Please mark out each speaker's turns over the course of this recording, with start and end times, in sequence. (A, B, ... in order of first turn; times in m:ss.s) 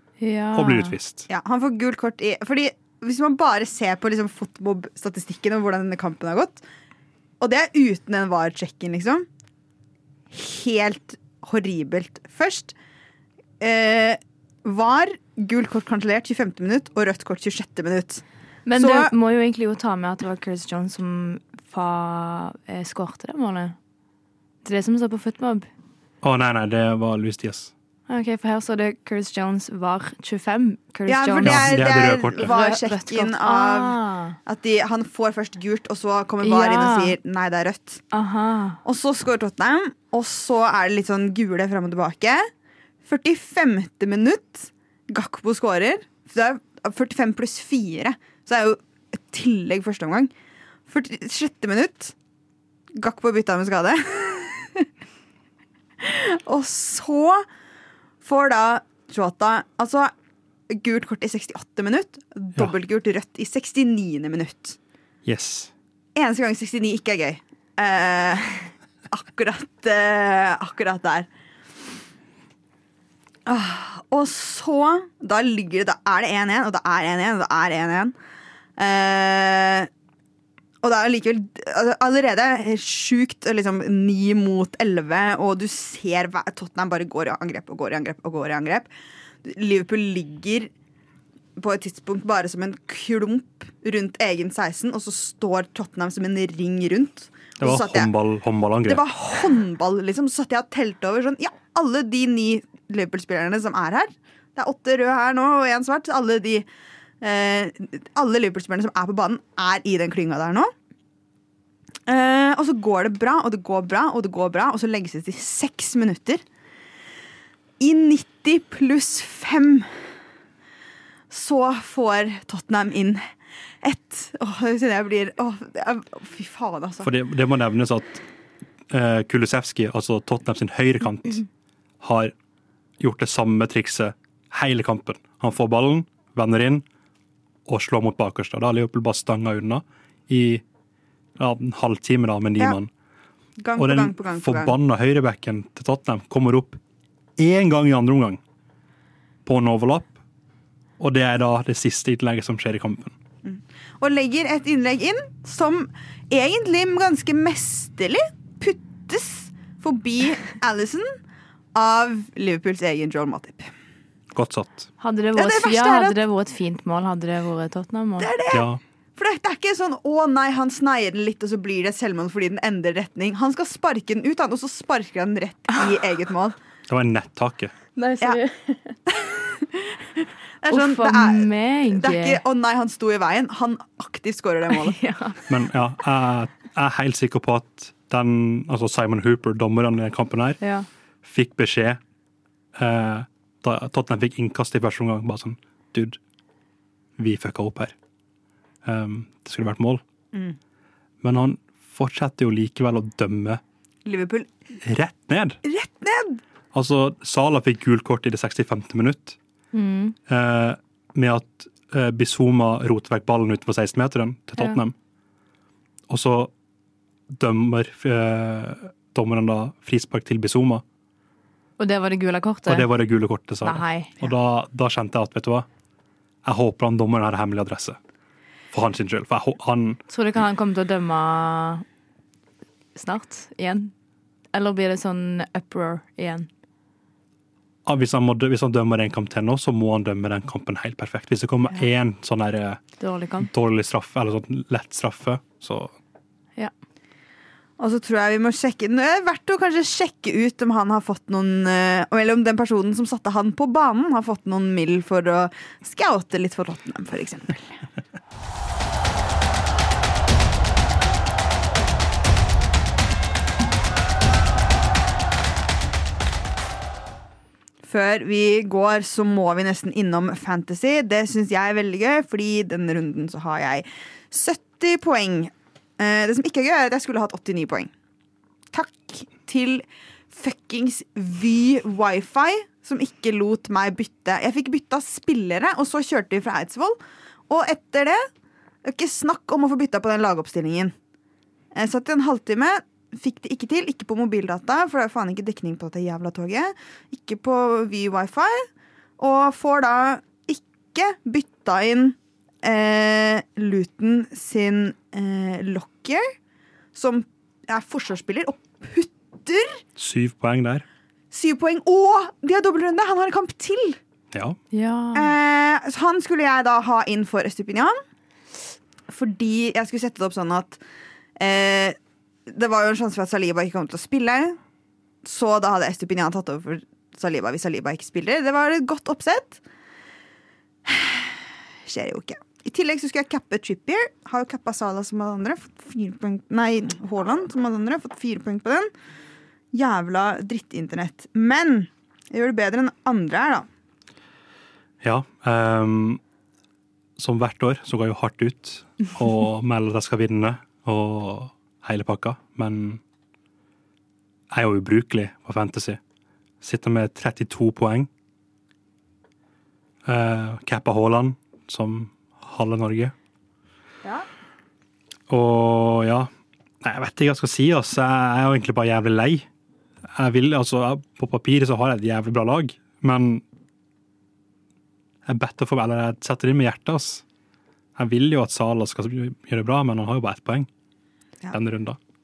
0:00.2-0:01.0 A
0:00.5-0:01.3 B
0:01.3-0:06.6 C
0:07.4-0:09.3 C
0:10.3-0:12.7 C
0:13.6-0:18.2 C
0:18.6-0:23.8 A
0:18.8-0:19.1 C
0:24.6-0:25.7 A
0:26.2-0:27.7 B
0:28.1-0:34.4 A
0:31.1-0:38.0 C
0:31.4-0:32.5 B
0:36.4-0:37.1 A
0:38.1-0:38.8 A
0:38.8-0:42.5 C
0:43.0-0:50.3 C
0:50.9-0:52.1 C
0:53.0-0:54.9 C
0:56.0-0:57.4 C
0:58.2-1:00.1 C
1:00.7-1:04.8 C
1:05.2-1:05.7 B
1:06.1-1:11.3 C
1:13.4-1:18.1 C
1:18.8-1:19.9 C
1:20.8-1:28.9 C
1:29.4-1:30.7 C
1:31.6-1:38.1 C
1:37.6-1:39.0 B
1:38.8-1:46.6 C
1:47.2-1:50.7 C
1:52.1-1:56.4 C
1:57.8-1:59.9 C
2:01.3-2:03.2 C
2:03.8-2:07.1 C
2:07.0-2:08.2 B
2:08.9-2:11.4 B
2:12.0-2:12.3 B
2:13.0-2:16.8 B
2:17.7-2:20.6 B
2:21.4-2:22.9 B
2:23.6-2:24.7 C
2:23.8-2:26.8 B
2:27.4-2:28.4 B
2:29.4-2:30.1 B
2:31.0-2:33.2 B
2:33.4-2:41.2 C
2:41.8-2:43.7 C
2:44.3-2:44.9 B
2:45.0-2:48.3 A
2:45.4-2:46.2 C
2:48.2-2:56.6 C
2:48.5-2:48.8 B
2:56.9-2:57.7 B
2:58.0-2:59.0 A
2:59.1-3:05.0 C
3:00.7-3:02.4 A
3:04.9-3:05.4 A
3:05.5-3:10.6 B
3:10.6-3:10.9 A
3:11.2-3:12.0 B
3:12.8-3:16.2 B
3:17.2-3:17.9 B
3:18.8-3:20.0 B
3:21.2-3:23.6 B
3:24.0-3:24.5 C
3:24.8-3:25.6 B
3:25.6-3:26.4 C
3:26.7-3:29.4 B
3:29.7-3:30.2 A
3:30.3-3:34.9 B
3:36.1-3:36.5 B
3:37.3-3:40.8 B
3:41.8-3:42.9 A
3:42.7-3:45.7 B
3:43.6-3:44.2 A
3:46.4-3:48.0 B
3:48.7-3:50.0 B
3:50.1-3:51.8 A
3:52.9-3:53.9 A
3:54.5-3:56.5 A
3:57.9-4:02.8 B
4:03.0-4:03.5 A
4:03.4-4:05.9 B
4:07.8-4:17.8 C
4:27.8-4:37.9 C
4:38.7-4:47.0 C
4:47.5-4:48.2 C
4:48.8-4:50.9 C
4:51.8-4:58.7 C
4:59.2-5:06.3 C
5:06.9-5:09.8 C
5:10.0-5:10.8 B
5:11.3-5:14.0 C
5:14.3-5:14.6 B
5:14.7-5:15.3 A
5:15.2-5:18.0 C
5:19.1-5:20.8 C
5:21.4-5:24.6 C
5:25.2-5:29.6 C
5:30.8-5:38.9 C
5:39.7-5:43.7 C
5:45.0-5:46.2 B
5:47.2-5:53.0 B
5:54.5-5:56.0 B
5:56.6-5:58.1 B
6:00.1-6:03.1 B
6:05.3-6:06.3 B
6:06.8-6:09.5 B
6:10.1-6:13.4 B
6:15.2-6:17.2 B
6:18.0-6:20.7 B
6:21.5-6:22.0 B